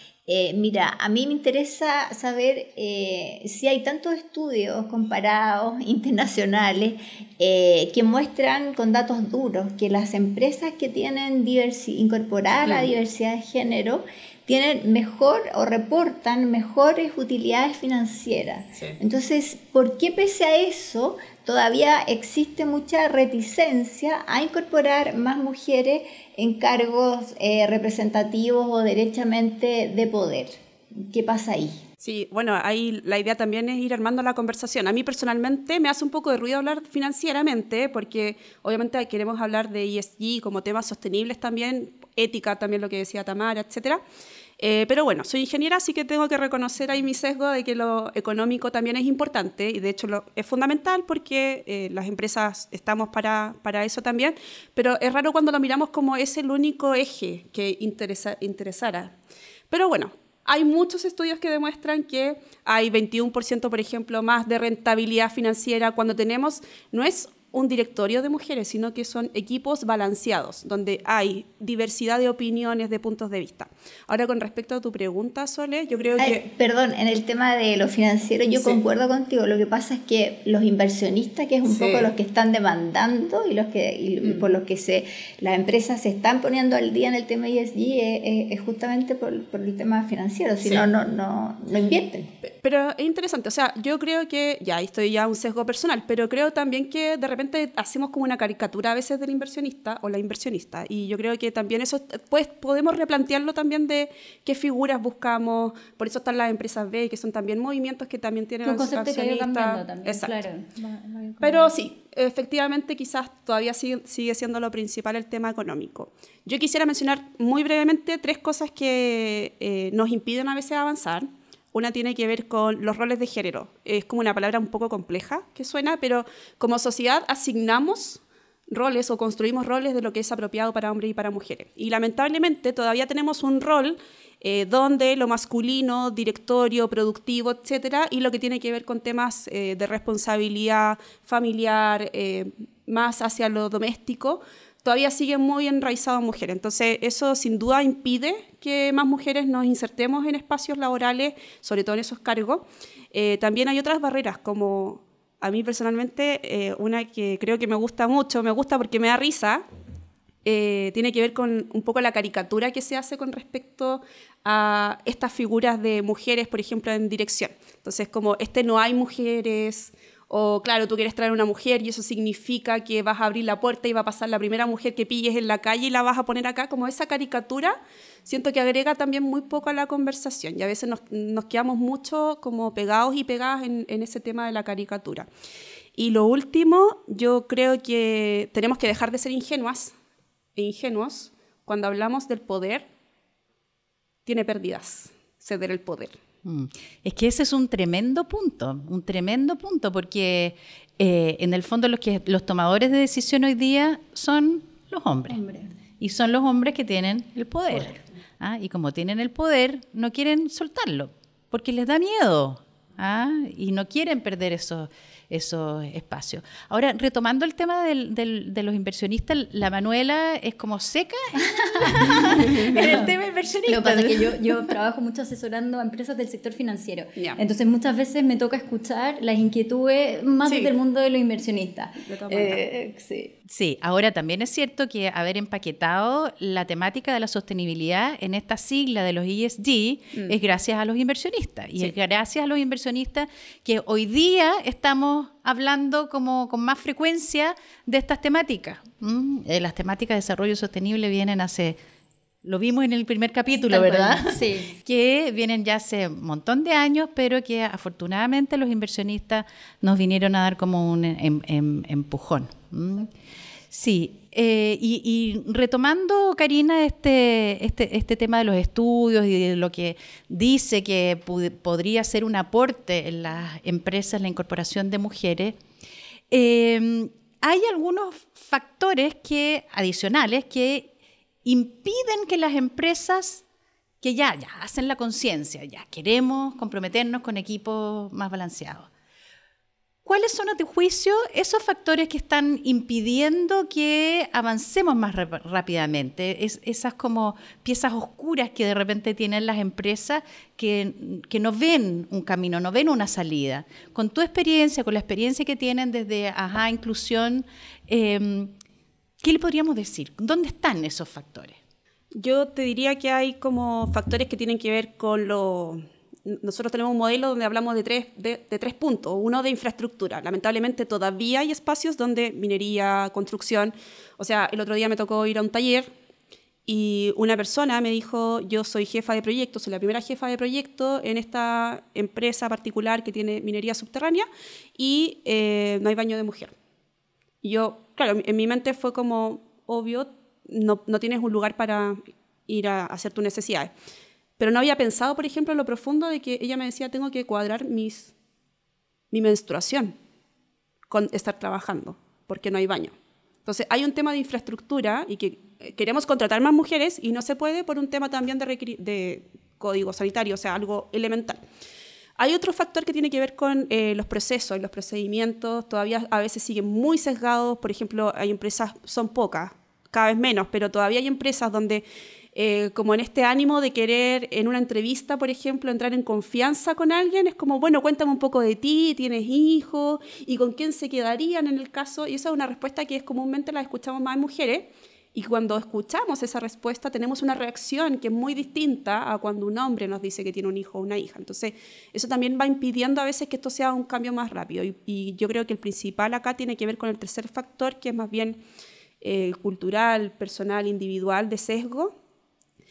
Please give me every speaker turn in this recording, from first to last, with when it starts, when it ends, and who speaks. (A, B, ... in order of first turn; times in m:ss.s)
0:00.3-0:31.8 A
0:12.6-0:12.9 B
0:32.0-0:44.0 B
0:44.6-0:59.2 B
0:59.7-1:16.4 B
1:16.2-1:32.3 A
1:18.5-1:18.8 B
1:21.6-1:22.1 B
1:32.4-1:50.4 B
1:48.6-1:51.7 C
1:51.4-2:39.6 B
2:40.4-3:05.3 B
3:06.0-3:09.9 B
3:10.6-3:12.9 B
3:14.2-3:16.2 B
3:16.4-3:25.4 D
3:25.3-3:25.7 C
3:26.0-3:44.5 D
3:41.4-3:43.0 C
3:42.4-3:42.8 B
3:43.6-3:53.3 C
3:50.4-3:50.7 B
3:52.0-3:52.6 B
3:53.5-4:11.8 D
4:12.4-4:23.1 D
4:13.7-4:14.8 C
4:23.7-4:35.6 D
4:36.3-4:40.9 D
4:41.4-4:43.4 D
4:44.0-4:48.9 D
4:50.0-5:08.5 D
5:09.2-5:11.6 D
5:12.2-5:25.9 B
5:26.7-5:36.5 B
5:37.4-5:43.7 B
5:44.4-5:48.1 B
5:49.1-5:50.0 B
5:50.9-6:01.4 B
6:02.2-6:38.4 B
6:39.0-6:41.9 B